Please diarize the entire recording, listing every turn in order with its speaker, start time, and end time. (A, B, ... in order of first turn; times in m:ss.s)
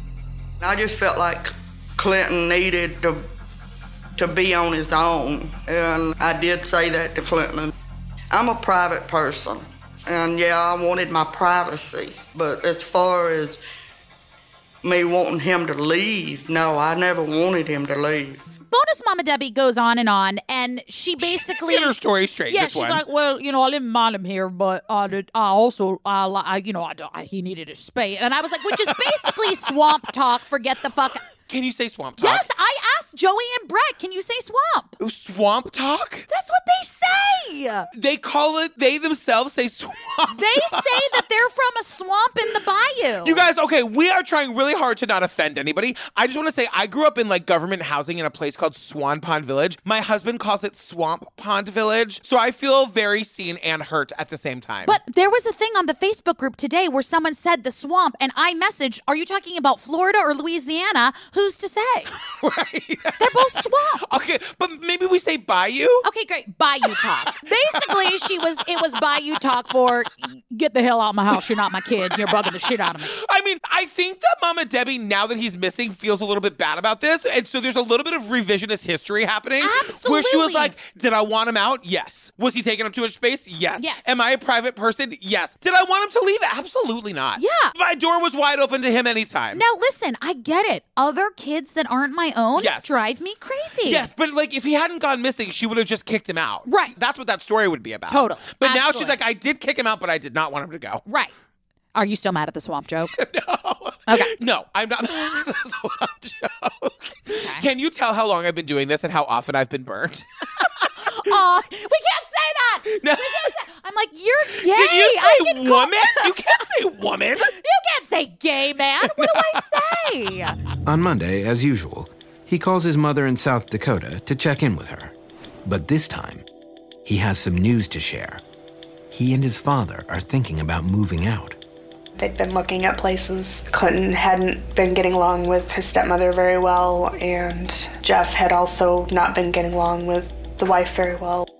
0:00.6-0:03.2 A
0:04.2-0:07.7 A
0:08.3-0:13.6 A
0:14.8-0:18.5 A
0:18.7-0:22.0 B
0:21.2-0:23.0 C
0:22.5-0:31.2 B
0:28.7-0:29.3 C
0:31.4-0:32.4 C
0:32.2-0:35.0 B
0:35.0-0:36.3 C
0:36.3-0:37.9 B
0:37.9-0:41.2 C
0:40.3-0:43.5 B
0:43.2-0:55.0 C
0:54.8-1:02.1 B
1:02.1-1:03.5 C
1:03.2-1:04.4 B
1:04.0-1:06.0 C
1:06.0-1:13.1 B
1:06.8-1:08.0 C
1:11.4-1:12.5 C
1:13.1-1:29.6 C
1:19.6-1:20.7 B
1:23.8-1:24.0 B
1:27.4-1:27.7 B
1:29.5-1:34.1 B
1:32.6-1:32.9 C
1:33.8-1:41.0 C
1:36.6-1:36.9 B
1:38.1-1:39.2 B
1:41.0-1:41.3 B
1:41.9-1:43.1 B
1:43.1-1:51.3 C
1:47.4-1:47.6 B
1:51.0-1:56.6 B
1:52.9-1:53.5 C
1:54.5-1:57.5 C
1:57.4-2:00.6 B
1:59.0-1:59.7 C
2:00.8-2:05.1 D
2:05.6-2:06.4 D
2:07.0-2:08.4 D
2:09.1-2:11.6 D
2:12.2-2:21.5 E